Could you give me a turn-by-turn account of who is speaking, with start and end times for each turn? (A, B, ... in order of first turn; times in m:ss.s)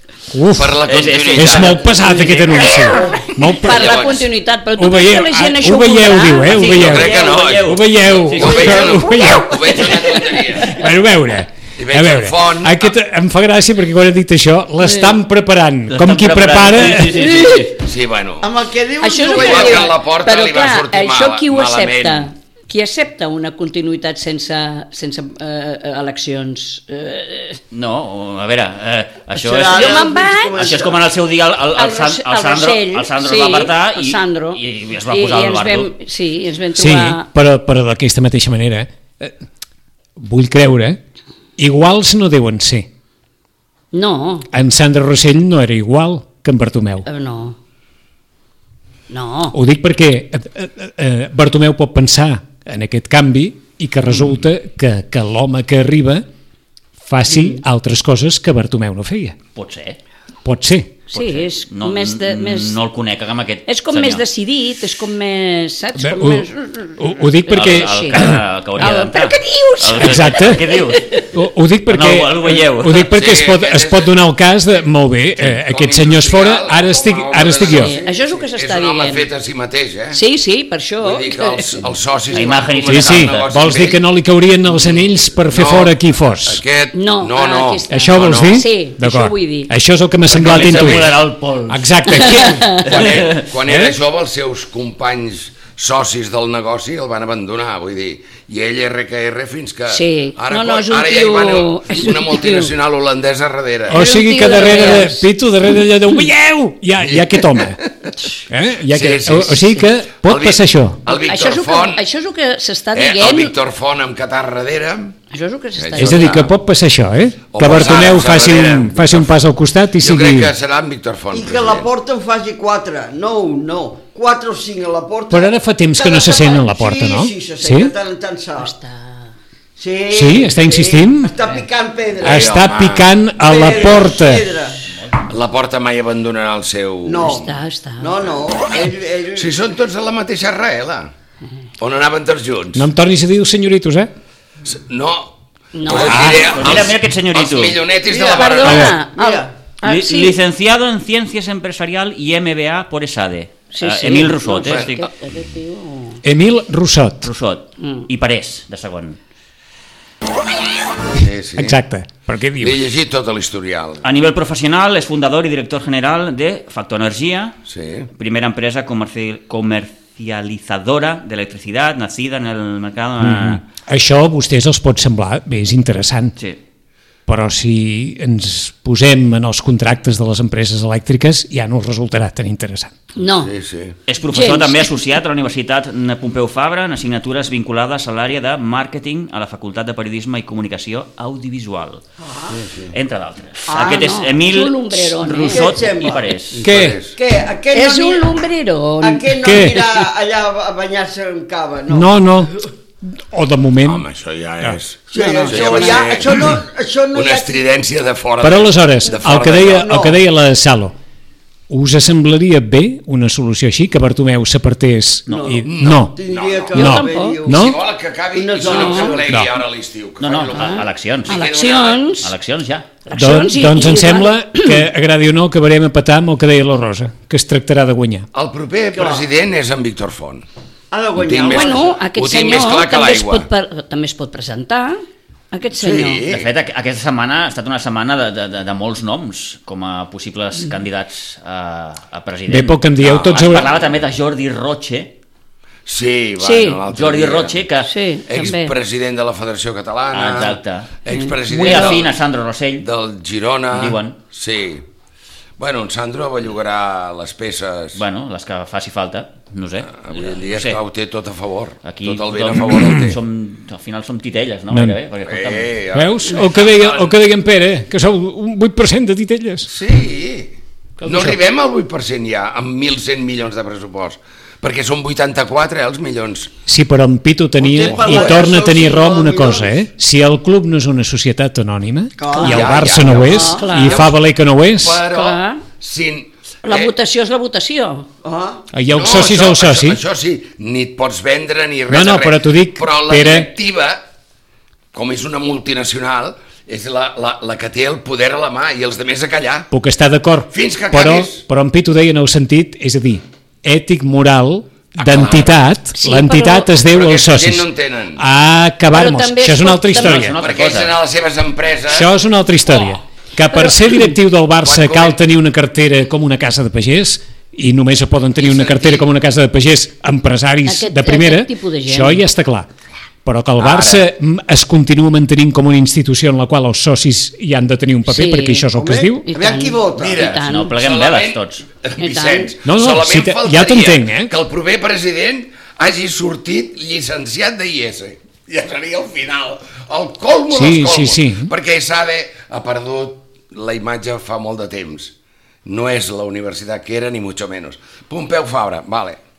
0:00.3-0:04.1 A
0:00.6-0:01.9 B
0:00.9-0:02.8 C
0:02.9-0:06.7 D
0:03.0-0:03.2 E
0:03.6-0:04.3 B
0:04.8-0:09.9 A
0:06.5-0:08.9 C
0:06.6-0:10.9 B
0:10.6-0:17.4 A
0:11.8-0:12.8 B
0:14.8-0:15.1 D
0:15.9-0:17.7 C
0:17.1-0:17.7 D
0:17.8-0:18.5 B
0:18.4-0:20.0 E
0:19.0-0:27.6 D
0:19.3-0:22.3 B
0:27.7-0:35.9 C
0:29.4-0:31.0 E
0:29.7-0:30.6 D
0:31.8-0:37.3 D
0:36.8-0:39.4 A
0:40.2-0:41.0 A
0:41.6-0:42.9 A
0:43.9-0:44.5 D
0:44.5-0:47.0 A
0:47.0-0:47.6 D
0:49.1-0:49.6 D
0:49.5-0:56.2 A
0:57.0-0:59.4 A
0:57.3-0:57.6 D
0:59.6-1:00.0 C
1:00.4-1:01.0 A
1:01.1-1:02.8 D
1:01.1-1:04.2 C
1:03.7-1:08.3 D
1:06.0-1:08.4 A
1:07.5-1:11.3 C
1:08.8-1:11.3 D
1:10.0-1:10.7 A
1:11.3-1:17.9 A
1:11.9-1:13.1 C
1:13.1-1:14.2 B
1:15.4-1:20.2 B
1:17.6-1:19.3 D
1:20.1-1:21.8 D
1:21.0-1:24.0 B
1:22.3-1:23.5 C
1:22.9-1:26.6 A
1:24.7-1:28.7 B
1:26.9-1:29.7 D
1:27.9-1:31.1 A
1:30.3-1:31.1 B
1:30.3-1:31.9 C
1:31.7-1:33.0 A
1:32.1-1:32.9 D
1:32.8-1:44.0 B
1:32.9-1:33.5 C
1:33.7-1:34.0 A
1:39.9-1:42.7 D
1:43.9-1:47.8 A
1:43.9-1:45.3 D
1:47.0-1:47.8 B
1:48.5-1:51.0 A
1:48.9-1:52.0 B
1:51.2-1:53.5 D
1:52.9-1:55.2 B
1:55.3-1:56.5 D
1:55.8-1:56.5 B
1:56.0-2:00.5 A
1:57.5-1:59.3 B
2:00.0-2:01.9 B
2:01.3-2:08.7 E
2:05.3-2:07.9 A
2:08.6-2:09.3 D
2:09.8-2:12.6 E
2:10.1-2:11.3 A
2:12.2-2:13.2 B
2:12.2-2:14.5 A
2:13.4-2:14.8 E
2:15.3-2:17.5 B
2:17.0-2:17.5 E
2:17.2-2:18.3 D
2:18.0-2:19.5 E
2:19.4-2:21.1 B
2:21.8-2:22.9 B
2:22.8-2:24.1 A
2:24.6-2:29.0 B
2:25.7-2:26.6 D
2:25.9-2:27.8 C
2:26.0-2:26.5 A
2:28.1-2:29.5 E
2:28.3-2:30.4 D
2:28.6-2:28.9 A
2:29.8-2:35.1 C
2:33.7-2:36.2 D
2:36.2-2:37.3 A
2:37.2-2:39.2 C
2:37.8-2:38.1 D
2:41.1-2:41.8 B
2:41.6-2:42.8 A
2:42.6-2:44.0 B
2:44.0-2:47.6 C
2:47.7-2:48.1 B
2:48.2-2:53.6 C
2:53.2-2:56.4 A
2:57.3-3:02.9 A
3:03.2-3:03.5 D
3:03.3-3:04.0 B
3:04.1-3:12.0 C
3:04.3-3:04.9 D
3:12.2-3:12.6 E
3:12.5-3:12.9 B
3:12.9-3:16.6 C
3:13.7-3:14.1 E
3:13.8-3:15.9 D
3:15.4-3:16.3 E
3:16.5-3:17.2 B
3:16.6-3:17.0 A
3:17.2-3:18.3 E
3:17.7-3:19.4 D
3:19.0-3:22.2 E
3:19.4-3:20.1 A
3:21.9-3:24.1 A
3:23.8-3:26.5 B
3:25.1-3:27.6 E
3:25.1-3:26.1 D
3:27.1-3:30.0 B
3:28.4-3:30.9 A
3:29.8-3:30.2 E
3:31.7-3:36.1 A
3:35.3-3:35.6 C
3:35.3-3:37.7 E
3:35.7-3:36.9 B
3:36.8-3:37.8 A
3:36.8-3:37.4 D
3:37.5-3:42.1 B
3:38.3-3:39.4 E
3:38.6-3:39.2 D
3:40.2-3:41.5 C
3:40.5-3:42.3 D
3:42.2-3:42.9 C
3:43.1-3:44.8 D
3:43.1-3:48.3 A
3:48.3-3:50.4 B
3:48.9-3:49.3 E
3:50.9-3:52.0 E
3:51.2-3:53.4 B
3:51.5-3:56.2 D
3:55.8-3:56.5 B
3:56.3-4:05.1 C
4:02.5-4:03.7 A
4:03.0-4:03.9 B
4:05.9-4:07.6 B
4:06.4-4:06.8 D
4:06.9-4:07.9 C
4:07.8-4:08.8 D
4:08.3-4:12.2 B
4:10.1-4:11.0 C
4:11.1-4:11.9 D
4:11.5-4:12.9 C
4:12.8-4:14.8 B
4:13.7-4:14.2 C
4:15.6-4:18.0 B
4:18.0-4:20.8 C
4:20.0-4:23.2 B
4:21.8-4:25.7 C
4:22.7-4:23.1 A
4:24.7-4:25.0 A
4:25.2-4:27.1 B
4:25.9-4:29.7 A
4:29.7-4:36.5 B
4:31.0-4:31.4 A
4:36.7-4:45.0 A
4:37.6-4:39.8 E
4:37.8-4:38.5 B
4:42.2-4:43.3 E
4:42.3-4:42.6 D
4:42.4-4:44.2 B
4:43.2-4:44.1 D
4:44.7-4:46.9 B
4:45.1-4:45.6 D
4:46.6-4:48.1 D
4:48.2-4:48.6 E
4:48.7-4:50.0 A
4:48.9-4:54.0 B
4:51.9-4:53.5 A
4:54.9-4:59.7 B
4:59.7-5:10.4 A
5:00.5-5:01.4 B
5:05.0-5:05.6 B
5:05.2-5:05.4 C
5:06.0-5:06.7 D
5:06.8-5:08.2 B
5:08.9-5:10.3 D
5:09.9-5:11.0 C
5:10.4-5:12.1 B
5:11.9-5:22.7 A
5:13.5-5:14.0 D
5:14.6-5:15.2 B
5:18.4-5:19.1 B
5:20.6-5:22.2 D
5:23.2-5:29.2 A
5:23.6-5:24.0 B
5:28.1-5:28.7 D
5:28.7-5:30.2 E
5:29.2-5:30.8 D
5:30.0-5:45.1 B
5:30.4-5:31.7 C
5:32.0-5:32.5 D
5:32.6-5:34.3 A
5:40.5-5:41.5 A
5:45.6-5:49.2 B